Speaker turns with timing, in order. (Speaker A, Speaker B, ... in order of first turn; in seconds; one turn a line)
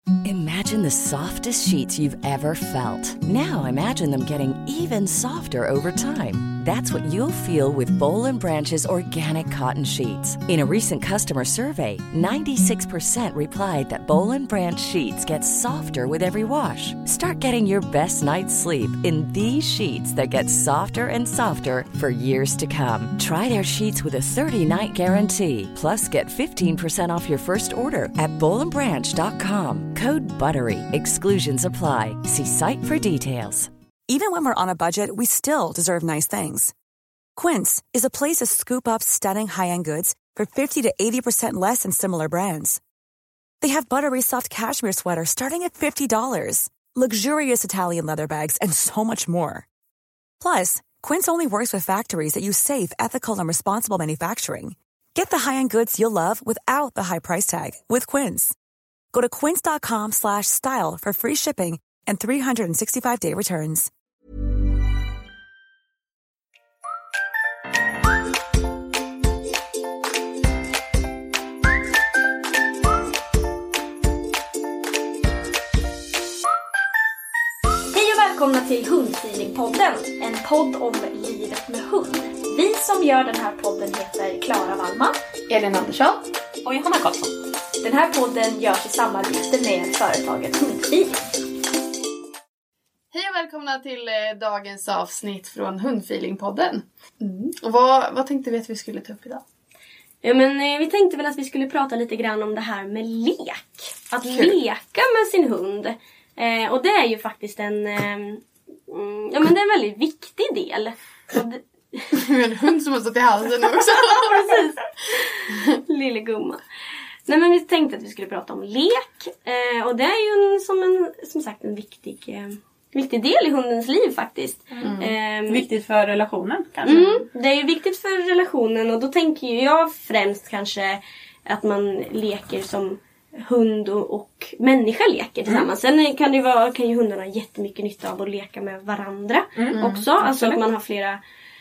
Speaker A: 0.2-33.7
Speaker B: 34.1-36.7
Speaker B: 37.4-42.8
Speaker B: 43.6-49.6
Speaker B: 50.4-58.5
Speaker B: 59.1-63.9
Speaker C: 77.9-91.2
Speaker D: 93.1-99.4
Speaker E: 100.2-112.1
Speaker D: 104.3-104.5
Speaker D: 112.1-114.3
Speaker E: 113.6-116.6
Speaker E: 117.2-125.6
Speaker D: 124.8-125.1
Speaker F: 125.5-127.2
Speaker E: 126.8-141.2
Speaker F: 139.6-140.6
Speaker D: 139.7-140.0